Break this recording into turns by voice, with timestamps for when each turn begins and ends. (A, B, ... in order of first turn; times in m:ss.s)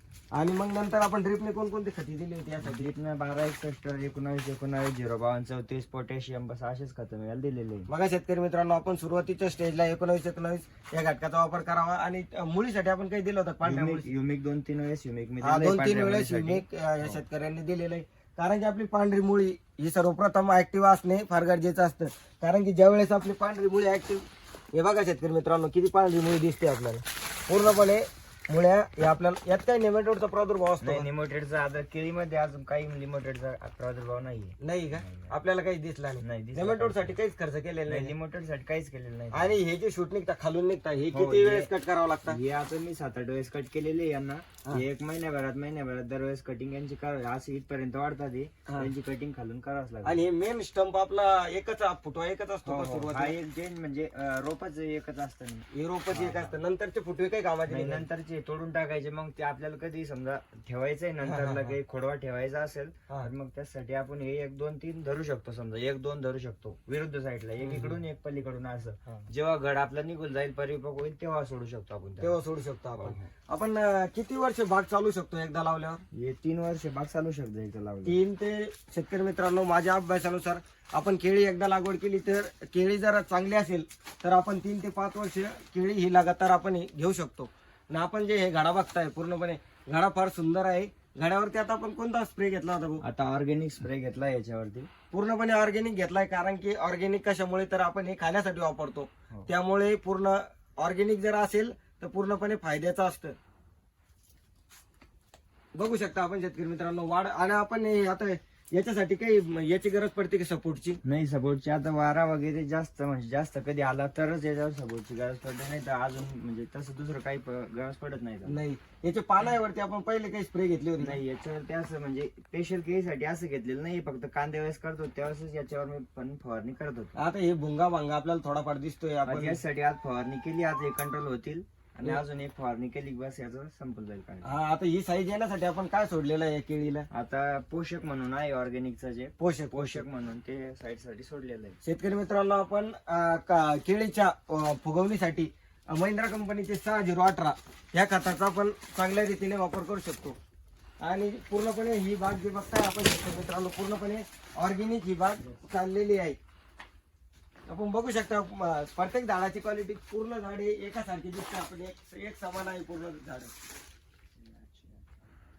0:00.3-0:02.9 A
0:02.6-0:07.9 B
0:07.9-0:14.1 A
0:13.6-0:17.2 B
0:15.4-0:31.1 A
0:30.8-0:35.4 B
0:34.6-0:38.1 A
0:36.2-0:37.2 B
0:37.9-0:39.6 B
0:39.3-0:42.4 A
0:41.1-0:41.7 B
0:42.3-0:50.2 B
0:50.0-0:53.4 A
0:52.6-0:56.6 B
0:55.7-0:58.1 A
0:57.7-1:12.4 B
1:01.2-1:01.8 A
1:07.6-1:08.0 A
1:12.2-1:16.0 A
1:13.0-1:13.3 B
1:16.1-1:18.2 B
1:18.0-1:33.0 A
1:33.0-1:34.9 B
1:35.1-1:43.4 A
1:45.8-1:51.0 A
1:51.0-1:58.6 B
1:58.5-2:01.2 A
2:01.0-2:07.2 B
2:07.2-2:09.6 A
2:09.3-2:14.6 B
2:14.4-2:17.1 A
2:17.1-2:21.8 B
2:19.4-2:20.1 A
2:21.8-2:30.4 A
2:31.0-2:36.4 A
2:37.7-2:43.5 A
2:44.4-2:45.1 B